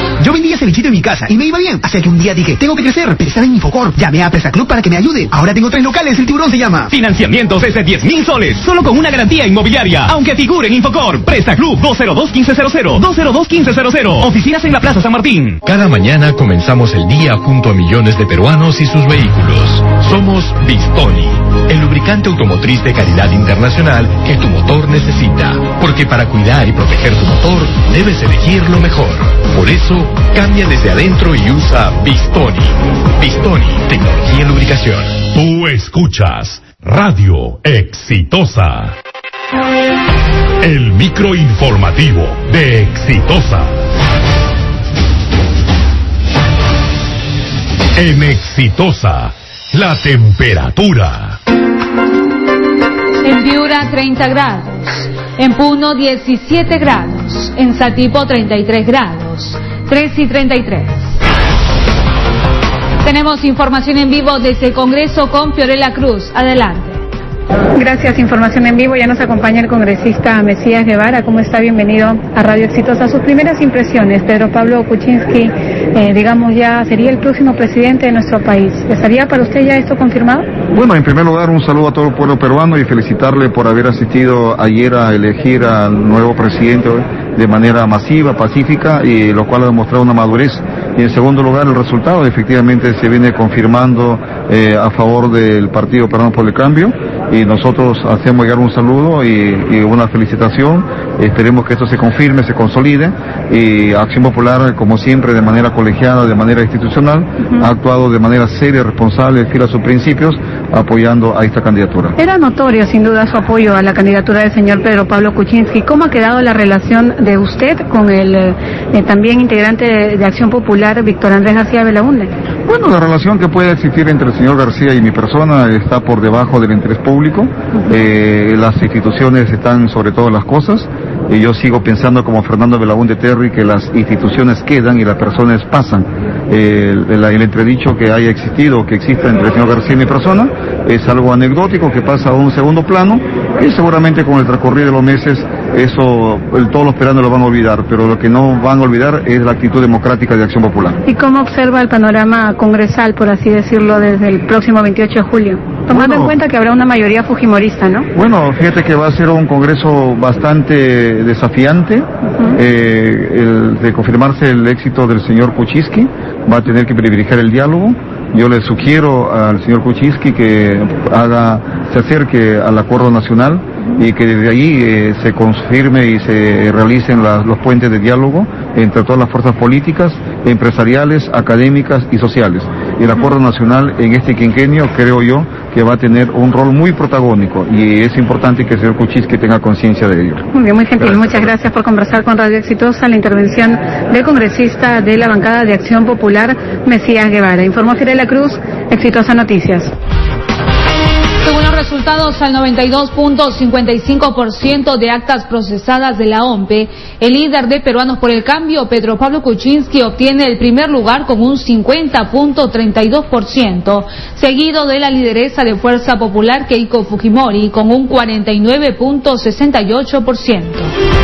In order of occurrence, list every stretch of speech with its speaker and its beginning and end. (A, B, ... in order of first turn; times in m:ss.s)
0:00.2-0:07.0 A
0:06.9-0:15.5 B
0:12.6-0:13.4 A
0:14.2-0:15.2 A
0:15.6-0:35.3 C
0:35.3-0:39.0 D
0:40.6-0:43.7 D
0:48.0-0:51.4 D
0:53.2-1:01.0 E
1:03.0-1:07.0 E
1:07.7-1:20.5 F
1:20.7-1:52.2 G
1:47.4-1:47.7 F
1:52.2-2:02.3 F
2:02.6-2:31.0 G
2:31.0-2:38.1 F
2:35.9-2:36.4 G
2:38.2-3:10.4 G
2:42.3-2:42.6 F
3:10.5-3:19.9 F
3:11.0-3:11.6 G
3:21.4-3:40.9 E